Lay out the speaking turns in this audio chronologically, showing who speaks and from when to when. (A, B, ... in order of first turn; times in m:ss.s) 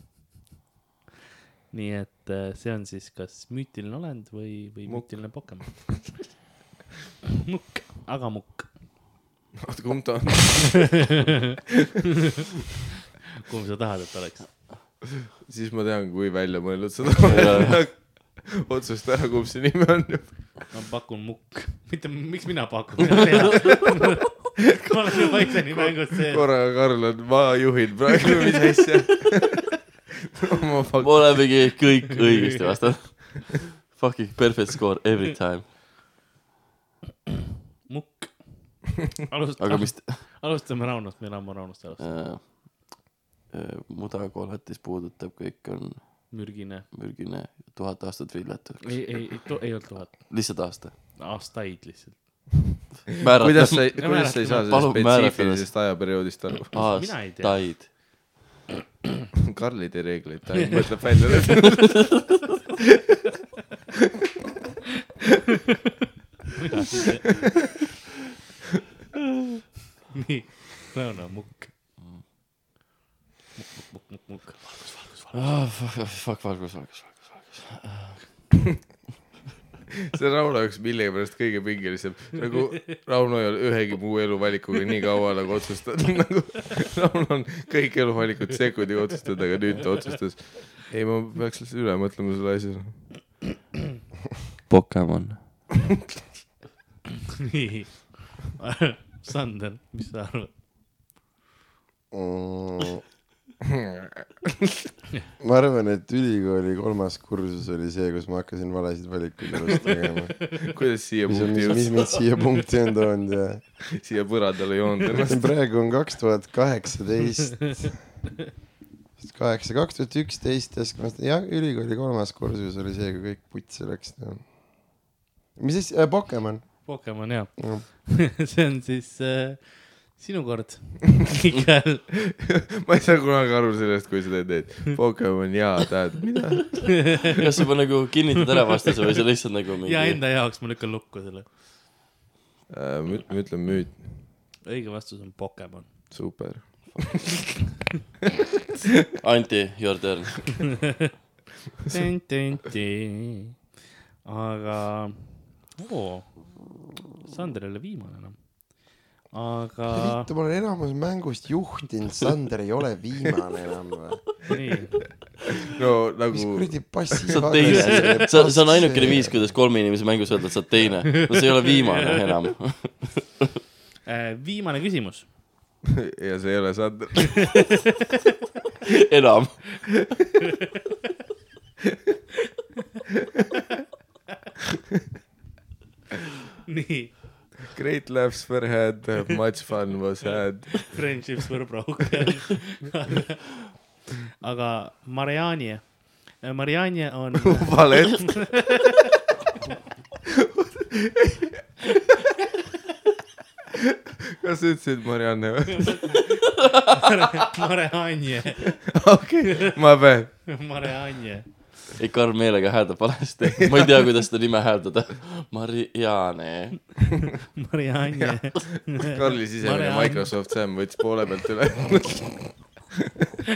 0:01.7-0:06.0 A
0:04.9-0:06.0 B
0:07.4-0:08.7 A
0:09.6-0:11.3 B
0:13.4-0:14.5 A
0:15.4-0:20.6 B
0:17.2-0:17.9 C
0:20.7-0:26.4 A
0:25.8-0:29.7 B
0:30.4-0:31.4 B
0:31.0-0:35.7 C
0:37.9-0:38.4 A
0:39.1-0:42.2 A
0:39.6-0:40.2 C
0:42.0-0:42.9 C
0:43.5-0:49.2 C
0:46.3-0:46.9 A
0:48.8-0:52.4 A
0:50.3-0:50.9 C
0:53.2-0:53.9 C
0:53.4-0:56.8 B
0:54.0-0:54.7 A
0:54.6-0:55.7 C
0:56.7-0:57.9 C
0:56.9-0:57.9 A
0:59.5-1:02.2 B
1:06.6-1:07.4 A
1:10.1-1:11.7 A
1:13.6-1:15.5 A
1:15.3-1:18.2 C
1:20.1-1:33.1 B
1:34.7-1:35.4 C
1:37.4-1:40.5 A
1:42.1-1:43.0 D
1:43.6-1:44.7 B
1:45.4-1:50.5 D
1:50.6-1:52.2 B
1:51.3-1:53.6 D
1:54.0-1:55.5 B
1:55.1-1:57.9 D
1:59.2-2:04.4 D
2:05.6-2:07.0 D
2:06.8-2:12.0 A
2:07.6-2:07.8 D
2:12.2-2:17.3 B
2:16.9-2:17.2 A
2:17.4-2:20.2 C
2:19.8-2:21.4 A
2:22.7-2:24.1 B
2:24.6-2:25.9 A
2:26.1-2:27.6 B
2:29.2-2:30.8 C
2:31.9-2:33.5 A
2:34.2-2:36.4 A
2:37.2-2:40.3 A
2:39.9-2:44.2 D
2:44.5-2:45.0 A
2:45.6-2:47.3 B
2:46.3-2:49.4 D
2:47.3-2:53.5 C
2:54.0-2:55.2 A
2:56.0-2:57.9 B
2:58.9-2:59.7 C
3:06.6-3:07.2 A
3:07.7-3:11.2 B
3:10.8-3:13.4 A
3:14.4-3:18.8 A
3:17.4-3:18.5 B
3:20.4-3:21.7 B
3:24.3-3:26.2 B
3:25.8-3:26.2 A
3:26.9-3:28.8 A
3:28.9-3:30.3 B
3:30.5-3:31.5 A
3:32.0-3:36.9 C
3:37.6-3:40.3 A
3:39.0-3:42.8 B